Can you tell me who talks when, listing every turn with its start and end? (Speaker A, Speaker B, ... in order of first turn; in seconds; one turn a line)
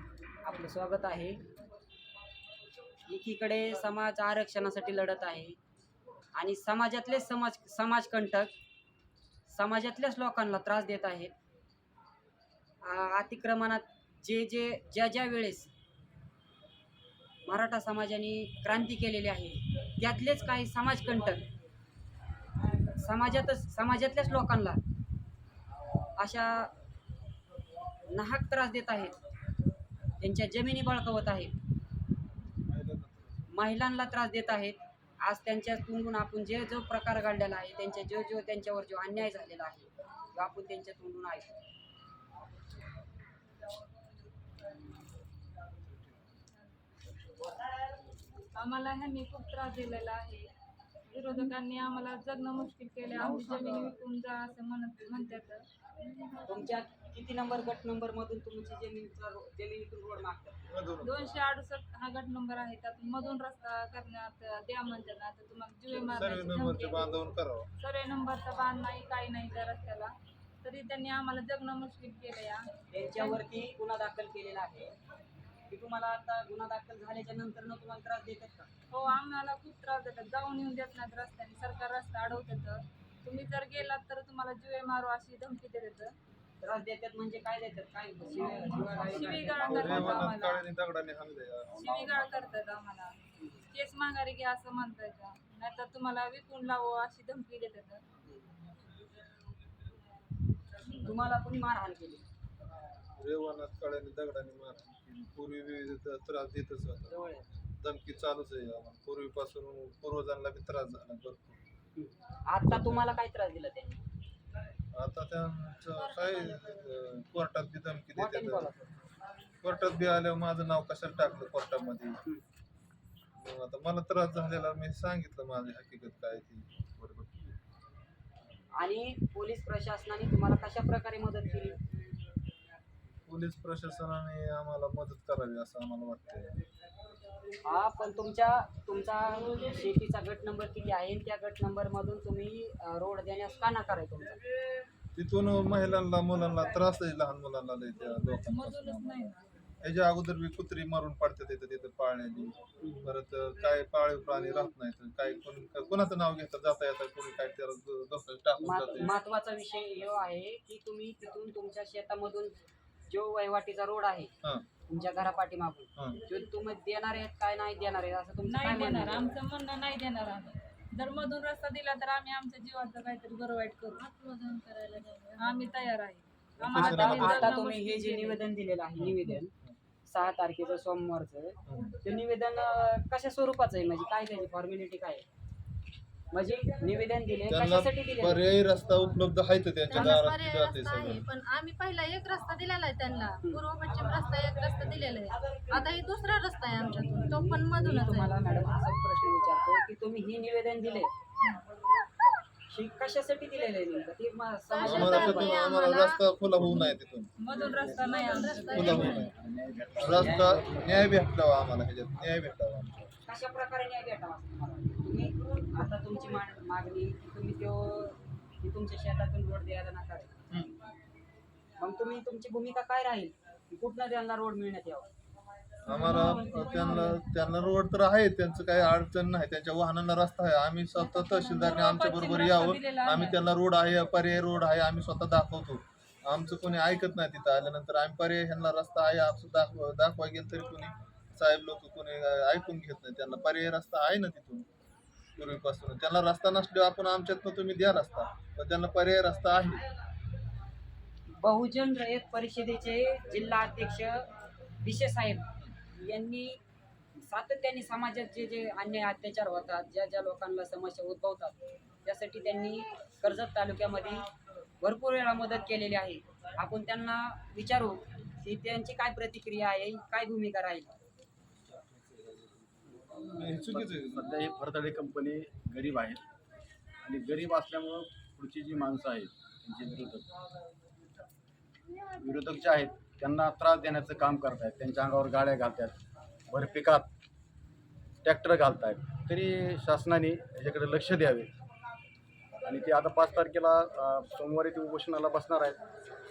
Speaker A: 0.4-1.4
Speaker A: 3.1-5.5
Speaker A: 6.3-8.5
Speaker A: 9.5-11.3
Speaker A: 12.8-15.7
Speaker A: 17.4-21.4
Speaker A: 22.9-24.8
Speaker A: 26.2-26.7
Speaker A: 28.1-29.1
Speaker A: 30.2-31.5
Speaker B: 32.6-33.4
Speaker A: 33.5-41.5
Speaker C: 48.5-50.5
Speaker C: 51.1-55.6
Speaker D: 53.2-54.0
Speaker A: 56.4-60.7
Speaker B: 60.7-61.3
Speaker C: 61.0-67.2
Speaker B: 65.9-67.7
Speaker C: 67.8-72.6
Speaker A: 72.9-74.9
Speaker A: 75.7-78.7
Speaker C: 78.9-86.1
Speaker A: 86.6-90.3
Speaker C: 89.0-90.7
Speaker B: 89.6-92.4
Speaker C: 91.7-98.0
Speaker A: 100.9-102.2
Speaker B: 103.2-107.2
Speaker A: 107.1-107.5
Speaker B: 107.8-111.6
Speaker A: 112.0-114.0
Speaker B: 112.7-113.0
Speaker B: 114.9-118.7
Speaker E: 116.0-116.7
Speaker A: 118.2-118.9
Speaker B: 119.6-122.2
Speaker B: 123.4-127.5
Speaker A: 128.8-131.8
Speaker B: 133.3-136.6
Speaker A: 137.7-144.4
Speaker B: 145.1-159.2
Speaker C: 148.4-149.4
Speaker A: 152.8-153.1
Speaker A: 158.6-162.5
Speaker A: 163.1-164.3
Speaker A: 164.9-169.3
Speaker C: 168.5-174.0
Speaker E: 173.9-175.6
Speaker C: 175.4-178.4
Speaker B: 176.6-177.5
Speaker A: 176.7-179.5
Speaker B: 179.0-179.8
Speaker A: 180.1-185.2
Speaker B: 181.7-181.9
Speaker A: 186.3-188.4
Speaker B: 187.5-191.2
Speaker E: 189.9-198.3
Speaker A: 197.3-201.1
Speaker A: 202.7-205.6
Speaker E: 204.7-206.9
Speaker B: 204.8-207.3
Speaker C: 207.4-209.1
Speaker D: 207.7-211.0
Speaker E: 208.2-209.2
Speaker B: 208.7-209.3
Speaker B: 210.0-213.1
Speaker A: 213.2-220.3
Speaker A: 221.8-225.1
Speaker B: 225.8-244.7
Speaker C: 225.9-227.1
Speaker C: 231.1-233.4
Speaker B: 245.4-249.8
Speaker A: 251.4-254.2
Speaker A: 254.8-256.6
Speaker A: 257.1-264.2
Speaker A: 264.8-271.0
Speaker B: 273.3-274.3
Speaker D: 273.7-276.2
Speaker D: 277.0-280.3
Speaker D: 282.1-285.9
Speaker D: 286.5-287.1
Speaker D: 288.2-291.5
Speaker D: 292.6-295.8